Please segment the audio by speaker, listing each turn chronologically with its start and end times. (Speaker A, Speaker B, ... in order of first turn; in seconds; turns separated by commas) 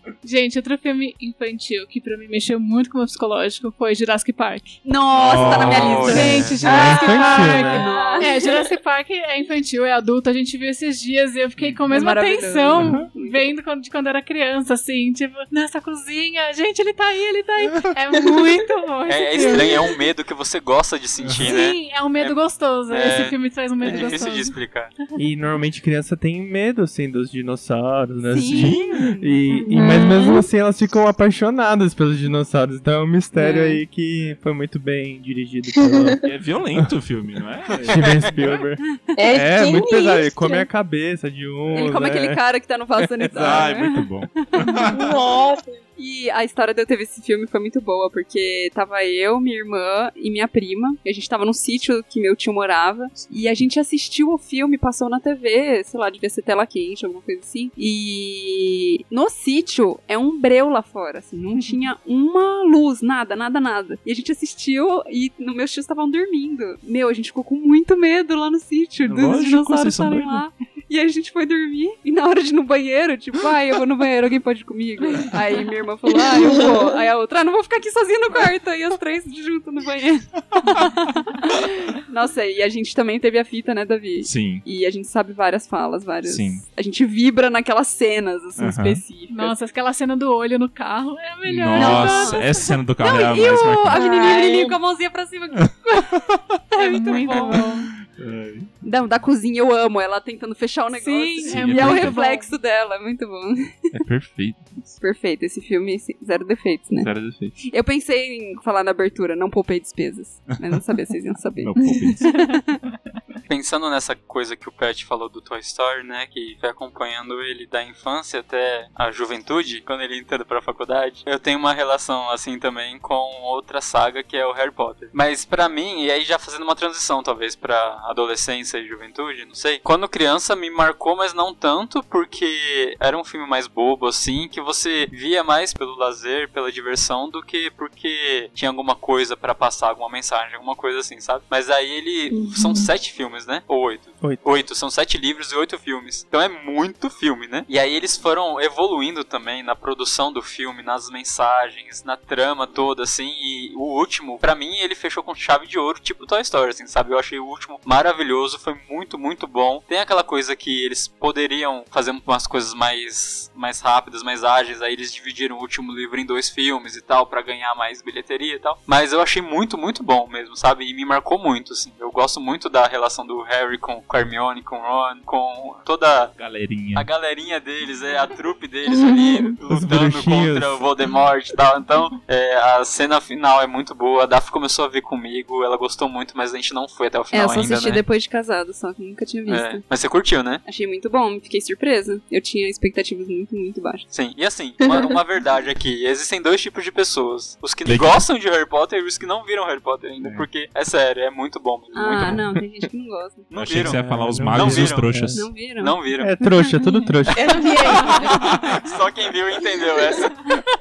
Speaker A: 0.2-4.8, Speaker B: 4.8-8.4, Speaker C: 5.1-6.6, Speaker D: 5.4-6.5, Speaker A: 6.0-19.8, Speaker E: 6.2-7.9, Speaker F: 6.7-7.0, Speaker F: 8.2-8.7, Speaker C: 11.6-11.8, Speaker B: 11.9-13.5, Speaker C: 12.7-13.1, Speaker D: 19.1-24.9, Speaker A: 21.4-24.6, Speaker B: 23.9-24.1, Speaker E: 25.1-36.9, Speaker B: 28.3-29.6, Speaker C: 28.5-29.0, Speaker F: 29.7-30.4, Speaker B: 33.4-33.8, Speaker C: 36.2-38.6, Speaker E: 37.8-42.4, Speaker F: 39.1-40.6, Speaker B: 41.7-44.9, Speaker E: 43.0-43.7, Speaker C: 43.3-45.1, Speaker F: 44.9-45.8, Speaker B: 46.0-89.5, Speaker C: 69.0-70.4, Speaker A: 75.1-75.6, Speaker F: 76.3-76.8, Speaker C: 84.2-84.6, Speaker C: 86.2-86.6, Speaker C: 88.6-89.0, Speaker A: 89.3-92.8, Speaker C: 91.4-94.0, Speaker B: 91.7-95.8, Speaker F: 93.9-94.8, Speaker C: 95.5-98.7, Speaker B: 96.7-97.7, Speaker A: 96.7-97.9, Speaker B: 98.8-104.0, Speaker A: 100.9-102.5, Speaker C: 101.4-102.2, Speaker C: 103.9-104.8, Speaker B: 105.0-112.8, Speaker C: 107.0-107.6, Speaker C: 110.5-110.8, Speaker C: 111.6-112.3, Speaker D: 113.5-176.3, Speaker F: 142.3-142.9, Speaker C: 176.4-177.1, Speaker D: 176.9-188.0, Speaker E: 179.7-180.9, Speaker B: 187.3-189.8, Speaker D: 189.5-190.6, Speaker B: 190.6-194.1, Speaker D: 194.1-202.4, Speaker C: 197.8-198.2, Speaker C: 200.2-200.5, Speaker B: 201.9-203.5, Speaker D: 203.5-206.3, Speaker C: 203.5-205.4, Speaker E: 203.8-205.5, Speaker B: 205.3-206.0, Speaker E: 206.2-208.0, Speaker A: 206.8-207.1, Speaker F: 207.3-208.4, Speaker A: 207.8-208.2, Speaker D: 208.0-210.5